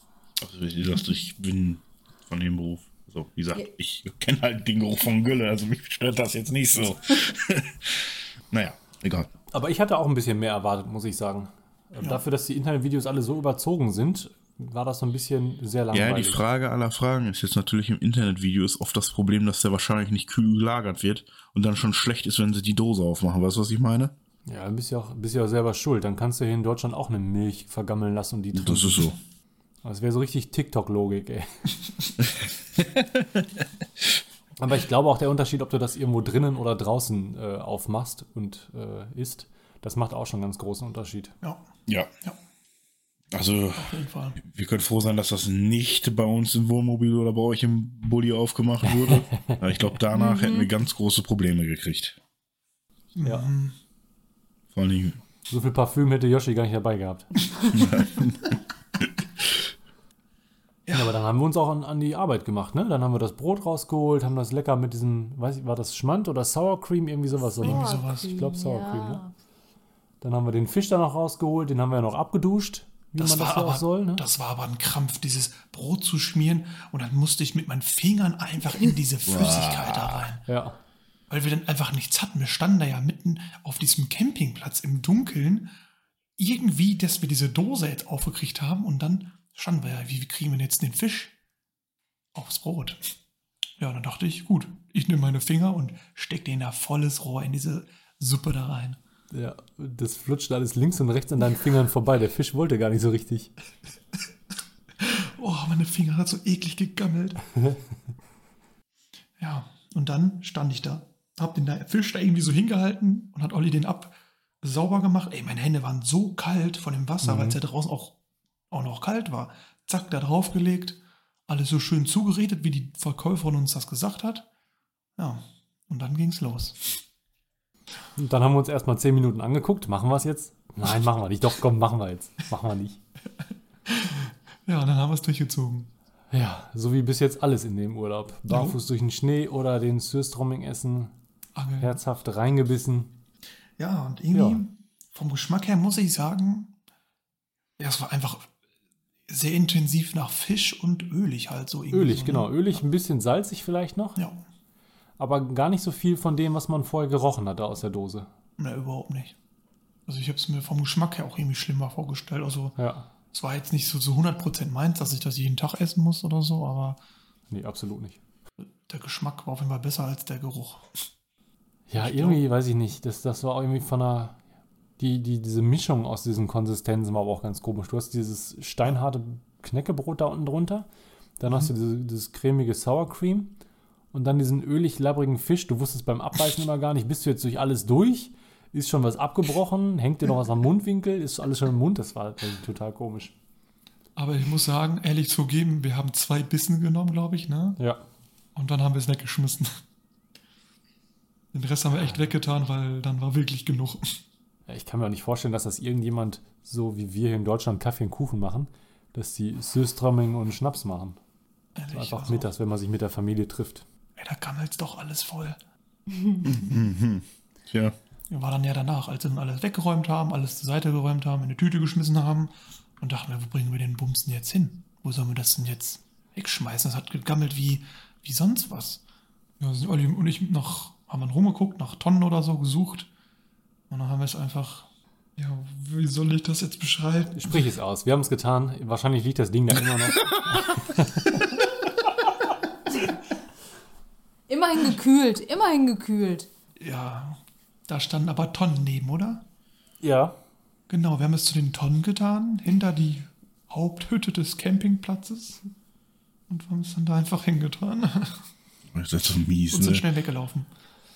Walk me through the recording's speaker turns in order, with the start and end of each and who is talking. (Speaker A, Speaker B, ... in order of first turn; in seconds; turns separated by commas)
Speaker A: 0.4-9.3, Speaker B: 9.5-16.4, Speaker A: 15.9-24.1, Speaker B: 24.4-29.1, Speaker A: 28.5-29.2, Speaker B: 29.8-31.5, Speaker A: 32.8-33.4, Speaker B: 34.6-41.3, Speaker A: 43.3-52.2, Speaker C: 43.8-44.4, Speaker B: 48.8-49.6, Speaker D: 50.1-50.7, Speaker C: 53.1-53.7, Speaker B: 53.2-53.5, Speaker A: 54.7-55.2, Speaker B: 55.5-57.5, Speaker A: 57.7-58.5, Speaker B: 60.9-69.2, Speaker D: 67.6-69.3, Speaker C: 67.6-68.3, Speaker B: 70.2-74.2, Speaker C: 73.2-80.4, Speaker A: 79.2-80.3, Speaker B: 80.5-80.8, Speaker C: 81.3-85.7, Speaker C: 86.4-91.3, Speaker C: 92.3-93.1, Speaker C: 93.8-99.0, Speaker B: 99.3-103.5, Speaker C: 105.0-107.5, Speaker C: 109.4-118.2, Speaker B: 117.2-117.6, Speaker C: 118.7-124.5, Speaker C: 125.2-126.9, Speaker B: 128.2-133.0, Speaker C: 133.8-135.9, Speaker B: 136.3-141.1, Speaker C: 138.5-138.8, Speaker C: 141.6-142.0, Speaker B: 141.8-143.1, Speaker C: 143.8-146.7, Speaker B: 144.3-144.6, Speaker C: 147.8-148.5, Speaker C: 149.3-152.5, Speaker B: 151.9-154.2, Speaker B: 155.2-158.3, Speaker C: 158.6-159.3, Speaker C: 160.1-162.8, Speaker B: 162.8-163.1, Speaker C: 163.3-167.0, Speaker B: 167.5-168.2, Speaker C: 168.9-171.0, Speaker B: 171.9-174.4, Speaker C: 172.0-172.4, Speaker B: 175.0-180.9, Speaker B: 181.4-183.6, Speaker B: 184.1-193.3, Speaker C: 194.2-197.8, Speaker B: 197.8-198.0, Speaker C: 198.6-199.8, Speaker C: 201.5-204.2, Speaker B: 204.7-211.2, Speaker C: 211.7-212.5, Speaker B: 211.9-213.8, Speaker C: 214.2-215.6, Speaker A: 216.4-217.9, Speaker C: 218.3-229.0, Speaker C: 229.6-233.1, Speaker C: 233.9-237.7, Speaker B: 237.3-241.5, Speaker D: 244.5-246.5, Speaker C: 246.8-249.4, Speaker B: 250.0-250.3, Speaker C: 250.9-255.6, Speaker C: 256.5-258.4, Speaker A: 258.9-260.0, Speaker C: 259.7-260.7